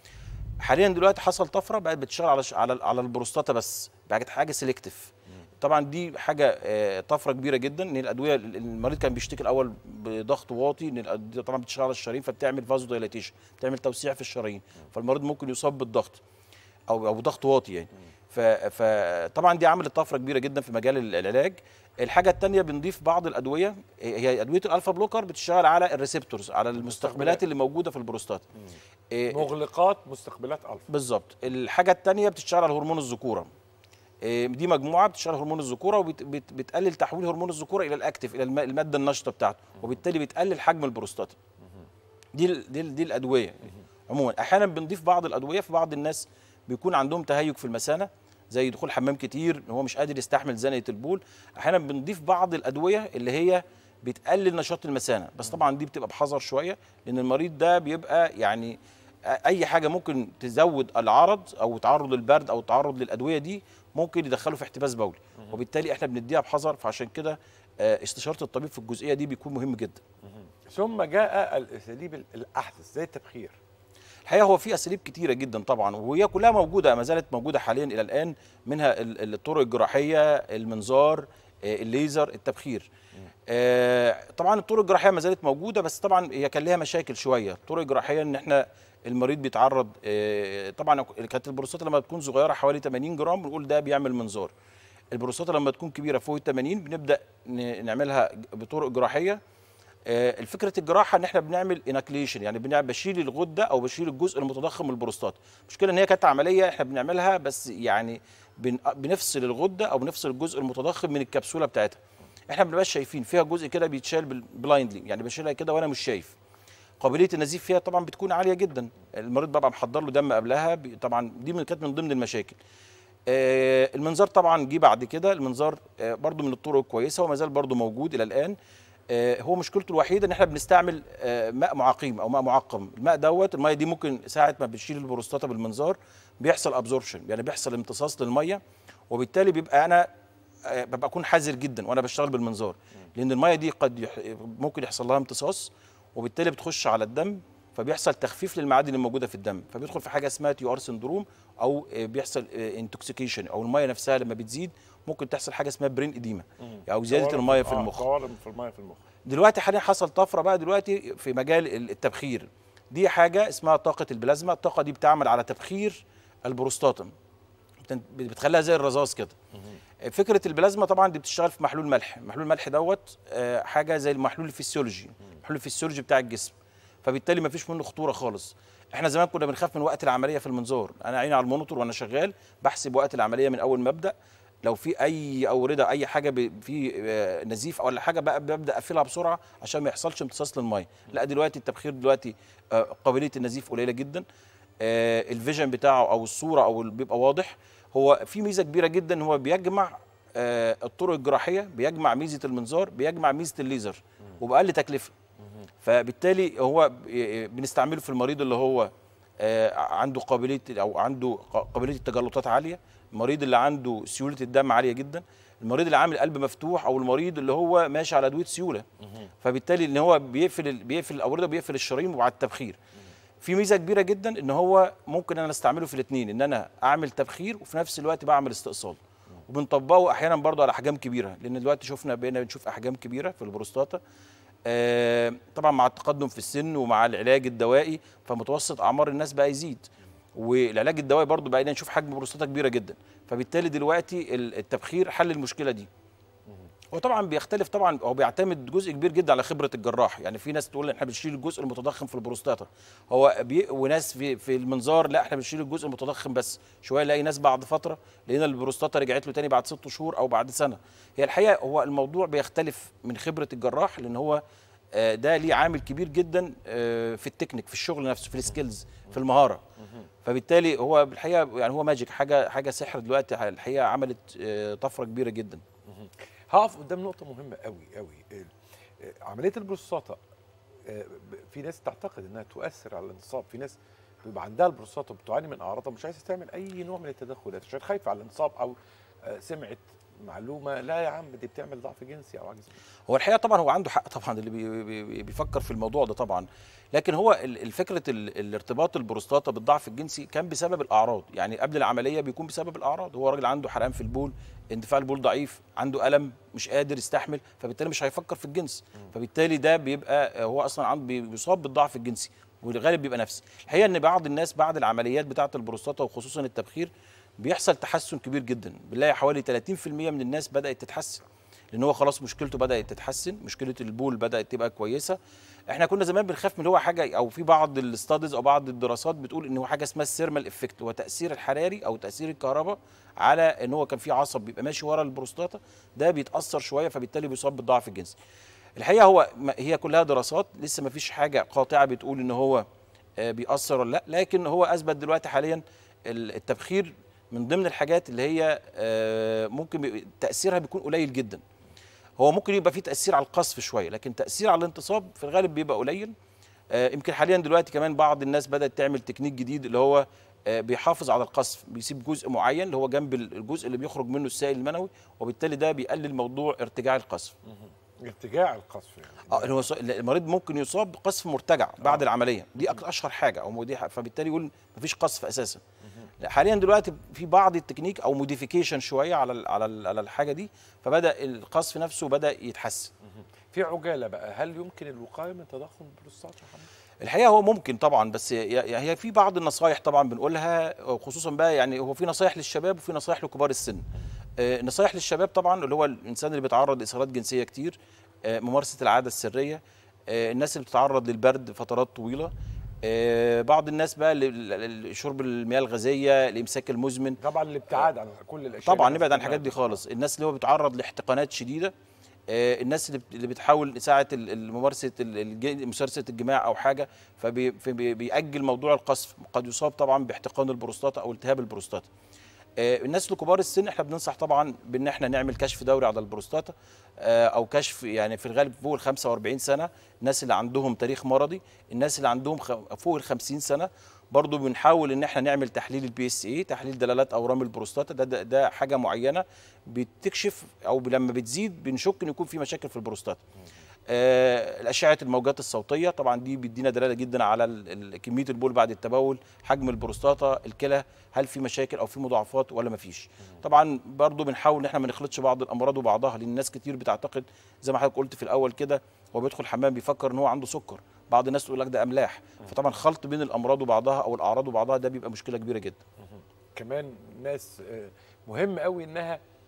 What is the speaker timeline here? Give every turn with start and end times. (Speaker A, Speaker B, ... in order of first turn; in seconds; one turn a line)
Speaker A: 0.6-16.2
Speaker A: 16.9-28.4
Speaker B: 26.8-27.4
Speaker A: 29.1-29.5
Speaker B: 29.3-30.9
Speaker A: 30.9-33.5
Speaker A: 34.2-41.4
Speaker A: 42.3-58.8
Speaker A: 59.3-70.0
Speaker B: 70.7-73.6
Speaker A: 74.2-82.9
Speaker A: 83.5-94.5
Speaker A: 95.1-99.4
Speaker A: 100.1-116.3
Speaker A: 117.0-122.6
Speaker A: 123.3-128.6
Speaker A: 129.1-140.1
Speaker A: 140.6-158.0
Speaker B: 156.6-159.0
Speaker A: 159.2-167.1
Speaker A: 167.8-169.4
Speaker A: 170.0-194.2
Speaker A: 194.8-205.1
Speaker A: 205.8-218.8
Speaker A: 219.4-222.8
Speaker A: 223.4-234.0
Speaker A: 234.7-245.9
Speaker A: 246.9-264.4
Speaker A: 264.9-269.6
Speaker B: 269.8-270.1
Speaker A: 270.2-275.6
Speaker B: 275.9-280.2
Speaker B: 280.9-292.7
Speaker A: 293.1-325.2
Speaker A: 325.7-338.1
Speaker A: 338.8-342.6
Speaker A: 343.2-351.4
Speaker A: 352.2-356.1
Speaker A: 356.7-367.3
Speaker B: 367.5-369.7
Speaker A: 369.3-375.6
Speaker B: 375.8-376.1
Speaker A: 376.2-382.9
Speaker B: 383.5-386.7
Speaker A: 387.0-393.8
Speaker A: 394.4-402.3
Speaker A: 402.8-407.2
Speaker B: 407.2-409.8
Speaker A: 408.6-411.7
Speaker A: 412.3-421.9
Speaker A: 422.6-443.2
Speaker A: 443.9-465.8
Speaker B: 466.6-469.2